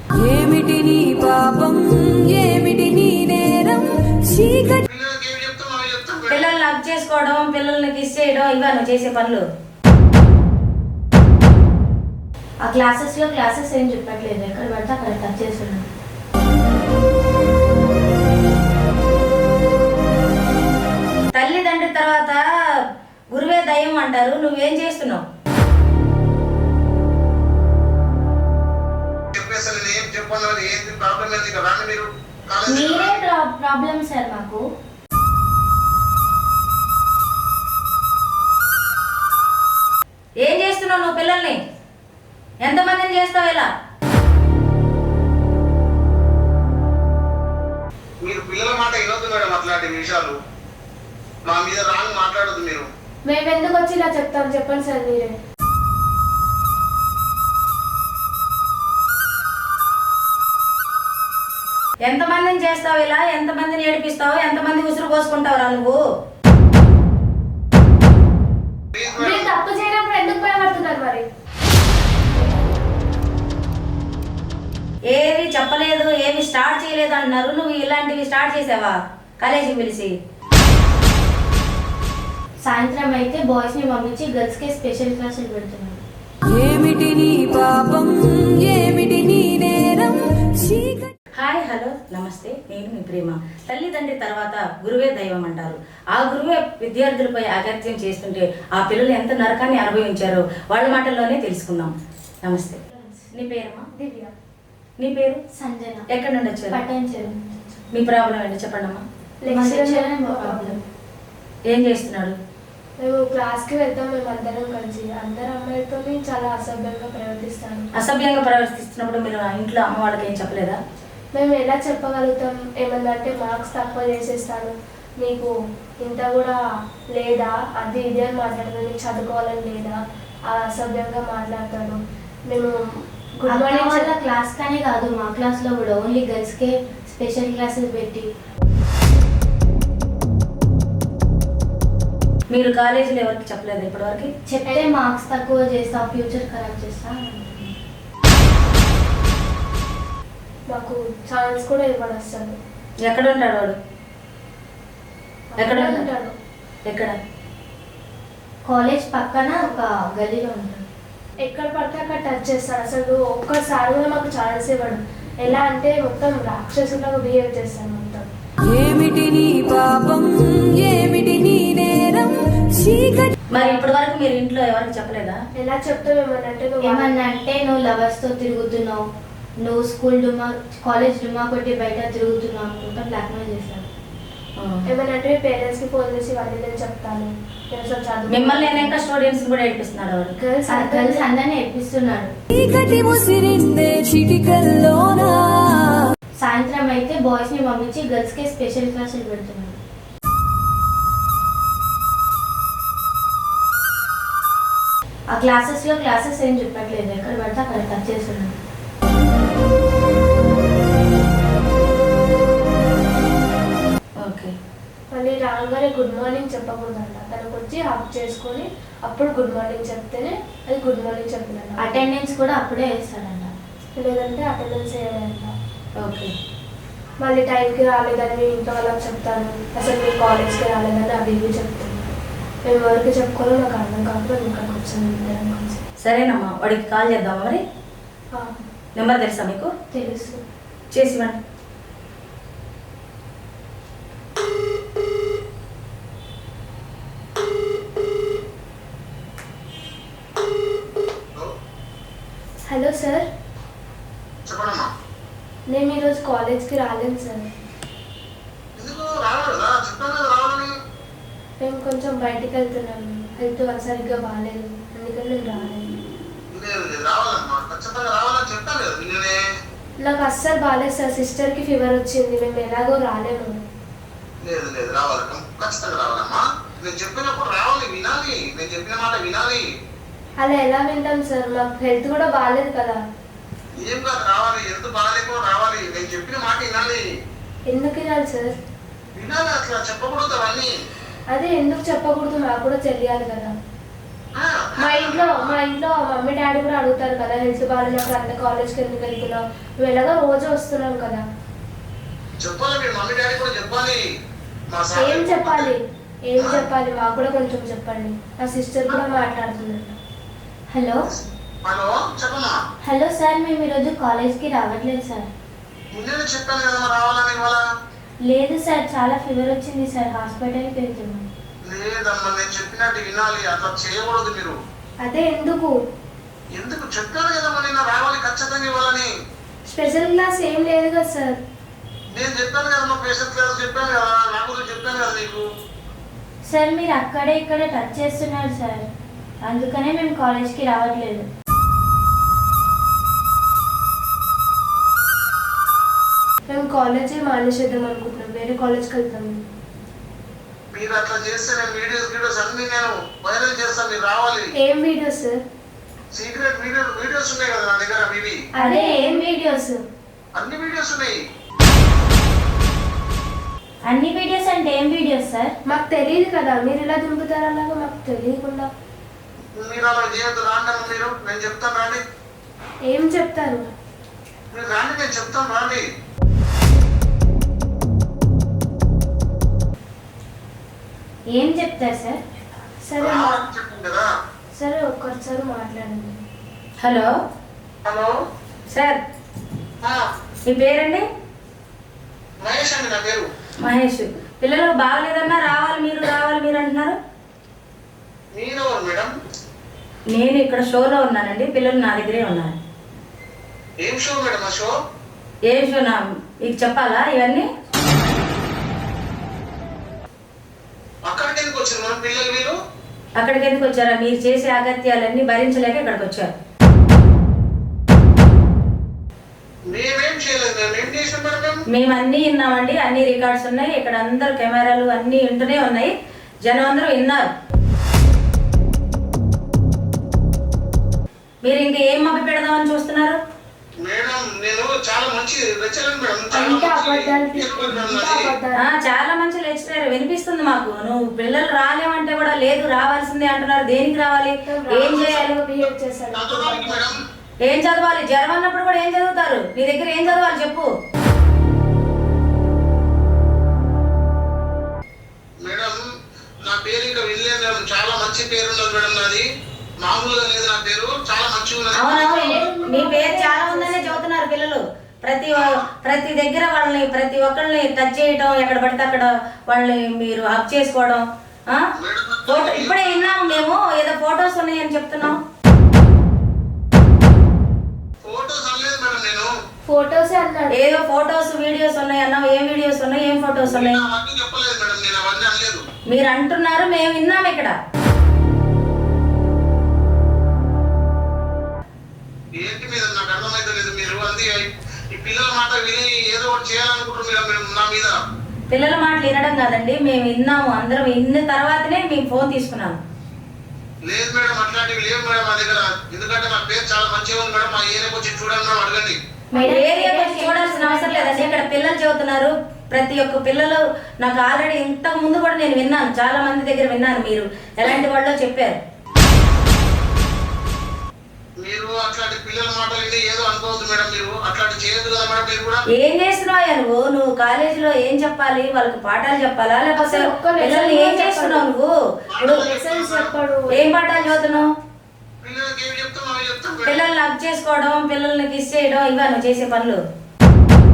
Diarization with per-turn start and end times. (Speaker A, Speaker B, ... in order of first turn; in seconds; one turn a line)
Speaker A: 0.2-4.8
Speaker B: 4.9-6.5
Speaker C: 6.3-9.4
Speaker D: 12.6-15.9
Speaker C: 21.3-22.4
Speaker C: 23.3-25.2
Speaker B: 29.3-33.2
Speaker D: 32.7-34.6
Speaker C: 40.4-41.6
Speaker C: 42.6-43.7
Speaker B: 48.2-50.4
Speaker B: 51.5-52.9
Speaker E: 53.3-55.3
Speaker C: 62.0-66.0
Speaker B: 68.9-69.5
Speaker E: 69.2-71.2
Speaker C: 75.1-80.1
Speaker D: 82.6-86.0
Speaker A: 86.5-91.1
Speaker C: 91.4-101.9
Speaker C: 102.5-102.8
Speaker C: 103.3-103.9
Speaker E: 103.9-104.3
Speaker C: 105.0-105.4
Speaker D: 105.5-106.0
Speaker C: 106.1-106.8
Speaker D: 106.7-107.6
Speaker C: 107.9-109.0
Speaker E: 109.4-110.8
Speaker D: 109.5-110.8
Speaker C: 111.7-112.4
Speaker E: 113.0-117.9
Speaker C: 118.0-120.8
Speaker E: 121.3-125.5
Speaker E: 126.0-126.6
Speaker E: 127.1-132.8
Speaker E: 133.4-134.1
Speaker D: 133.5-138.3
Speaker C: 142.5-144.3
Speaker D: 144.5-147.8
Speaker E: 144.7-144.9
Speaker E: 150.7-152.6
Speaker C: 153.1-153.8
Speaker E: 155.5-156.3
Speaker C: 155.6-156.1
Speaker C: 156.9-157.2
Speaker D: 158.7-160.8
Speaker E: 161.4-168.3
Speaker A: 168.7-173.3
Speaker C: 173.5-175.4
Speaker E: 175.6-177.2
Speaker D: 176.8-179.0
Speaker D: 179.6-183.9
Speaker C: 184.6-184.8
Speaker E: 184.9-189.0
Speaker C: 188.3-190.4
Speaker E: 190.4-191.3
Speaker D: 190.7-192.3
Speaker A: 192.5-195.9
Speaker D: 196.4-199.8
Speaker D: 205.3-208.6
Speaker C: 214.2-214.5
Speaker E: 215.1-222.0
Speaker D: 221.8-223.5
Speaker E: 224.0-225.5
Speaker C: 226.0-226.3
Speaker E: 227.2-232.1
Speaker E: 232.7-235.8
Speaker C: 236.0-237.6
Speaker C: 239.0-239.7
Speaker D: 239.9-240.3
Speaker E: 240.0-240.4
Speaker C: 240.9-241.4
Speaker E: 252.7-253.3
Speaker B: 254.5-254.9
Speaker E: 255.7-257.5
Speaker B: 258.8-260.7
Speaker E: 261.6-266.0
Speaker B: 266.5-269.4
Speaker E: 270.0-273.6
Speaker B: 274.4-279.6
Speaker E: 280.4-283.0
Speaker B: 283.8-287.0
Speaker E: 287.7-288.5
Speaker B: 289.2-290.7
Speaker E: 291.3-293.5
Speaker B: 294.4-295.6
Speaker E: 294.8-301.2
Speaker B: 302.4-304.0
Speaker B: 304.7-305.7
Speaker E: 304.9-309.9
Speaker B: 306.4-306.7
Speaker D: 310.7-311.1
Speaker B: 311.1-312.6
Speaker D: 312.9-315.3
Speaker B: 315.9-317.6
Speaker D: 318.3-321.3
Speaker B: 321.7-324.6
Speaker E: 325.0-325.8
Speaker B: 326.6-329.1
Speaker E: 329.7-331.4
Speaker B: 332.1-335.4
Speaker D: 336.5-338.9
Speaker D: 339.4-341.3
Speaker E: 346.5-349.4
Speaker B: 350.7-354.5
Speaker E: 354.6-355.4
Speaker B: 356.1-358.4
Speaker E: 358.6-359.8
Speaker D: 358.6-359.6
Speaker B: 360.4-361.2
Speaker D: 363.9-365.5
Speaker E: 365.7-368.7
Speaker B: 369.6-372.0
Speaker E: 372.9-373.6
Speaker B: 374.5-375.8
Speaker D: 381.3-382.2
Speaker E: 382.9-383.4
Speaker B: 383.0-384.1
Speaker E: 384.6-386.2
Speaker C: 386.8-387.1
Speaker B: 387.9-388.1
Speaker C: 388.7-389.0
Speaker C: 390.5-391.0
Speaker B: 392.4-393.3
Speaker C: 393.6-397.0
Speaker B: 398.4-399.1
Speaker C: 400.1-402.6
Speaker B: 403.8-404.7
Speaker C: 405.5-407.4
Speaker B: 411.1-412.5
Speaker C: 413.2-416.3
Speaker B: 419.7-421.6
Speaker C: 421.7-425.9
Speaker C: 426.4-427.3
Speaker C: 431.4-433.2
Speaker B: 433.8-438.3
Speaker E: 436.3-438.7
Speaker C: 438.6-445.3
Speaker E: 444.5-446.9
Speaker B: 446.1-447.0
Speaker C: 447.4-450.7
Speaker B: 455.4-455.8
Speaker B: 456.4-459.2
Speaker B: 459.8-462.5
Speaker C: 461.8-471.6
Speaker E: 462.1-464.0
Speaker B: 465.4-465.6
Speaker B: 471.8-473.4
Speaker C: 472.3-475.2
Speaker B: 478.0-479.3
Speaker E: 479.7-480.6
Speaker C: 480.6-483.8
Speaker B: 483.5-485.6
Speaker C: 485.9-487.6
Speaker B: 492.4-498.0
Speaker C: 498.5-502.8
Speaker B: 503.9-509.0
Speaker D: 509.3-511.5
Speaker C: 509.4-518.6
Speaker B: 521.4-525.6
Speaker C: 525.7-531.7
Speaker E: 529.8-531.4
Speaker B: 532.1-533.1
Speaker C: 532.2-532.5
Speaker E: 532.2-534.5
Speaker C: 533.6-534.4
Speaker B: 535.2-536.9
Speaker C: 536.6-539.8